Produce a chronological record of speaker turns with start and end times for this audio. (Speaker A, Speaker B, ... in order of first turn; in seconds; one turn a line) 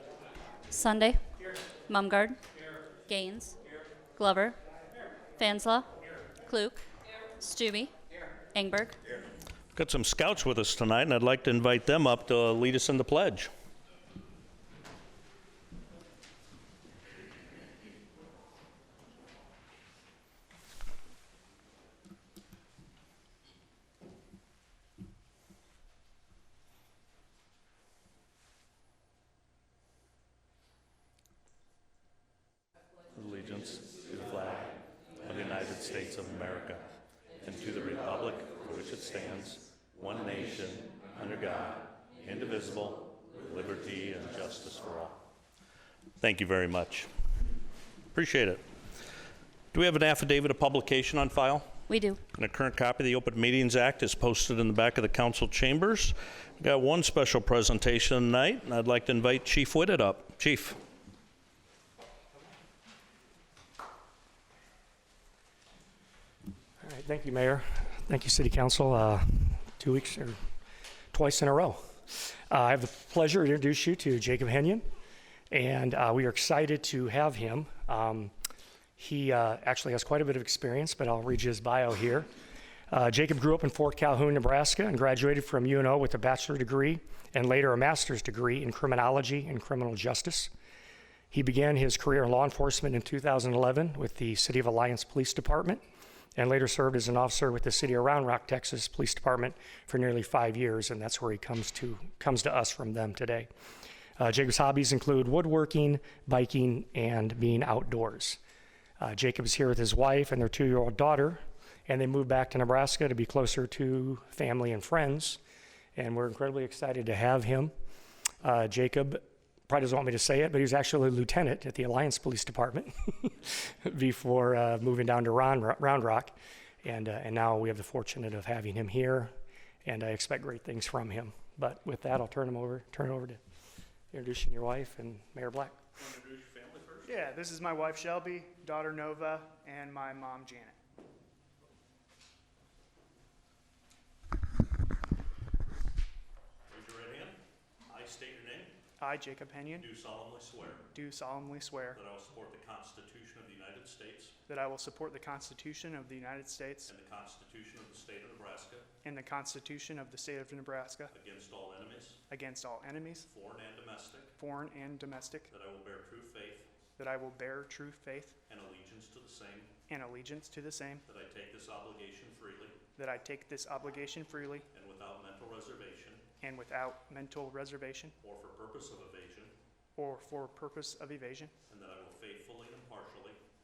Speaker A: 0.7-1.2
Speaker A: 1.9-2.4
Speaker A: 3.1-3.6
Speaker A: 4.2-4.6
Speaker A: 5.4-5.9
Speaker A: 6.4-6.8
Speaker A: 7.4-7.9
Speaker A: 8.5-9.0
Speaker B: 9.7-13.5
Speaker B: 33.1-36.9
Speaker B: 37.4-45.1
Speaker B: 46.2-47.1
Speaker B: 48.1-48.6
Speaker B: 49.7-51.7
Speaker A: 51.9-52.2
Speaker B: 52.3-60.8
Speaker C: 66.8-70.4
Speaker C: 71.1-74.9
Speaker C: 75.5-78.3
Speaker C: 79.0-82.3
Speaker C: 82.9-90.5
Speaker C: 91.3-95.8
Speaker C: 96.3-103.5
Speaker C: 104.2-108.4
Speaker C: 109.0-115.4
Speaker C: 116.0-117.7
Speaker C: 118.4-129.3
Speaker C: 129.8-133.4
Speaker C: 134.1-135.8
Speaker B: 136.0-137.2
Speaker D: 137.1-140.8
Speaker B: 146.7-148.7
Speaker D: 149.0-149.9
Speaker B: 149.8-150.8
Speaker D: 150.9-152.0
Speaker B: 151.9-154.3
Speaker D: 154.5-156.9
Speaker B: 156.9-158.9
Speaker D: 159.0-161.1
Speaker B: 161.1-162.2
Speaker D: 162.3-163.3
Speaker B: 163.3-164.3
Speaker D: 164.4-165.5
Speaker B: 165.5-166.7
Speaker D: 167.0-168.3
Speaker B: 168.5-169.7
Speaker D: 169.9-171.0
Speaker B: 171.0-172.8
Speaker D: 173.0-174.7
Speaker B: 174.7-176.2
Speaker D: 176.4-178.2
Speaker B: 178.2-179.5
Speaker D: 179.9-181.5
Speaker B: 181.7-183.4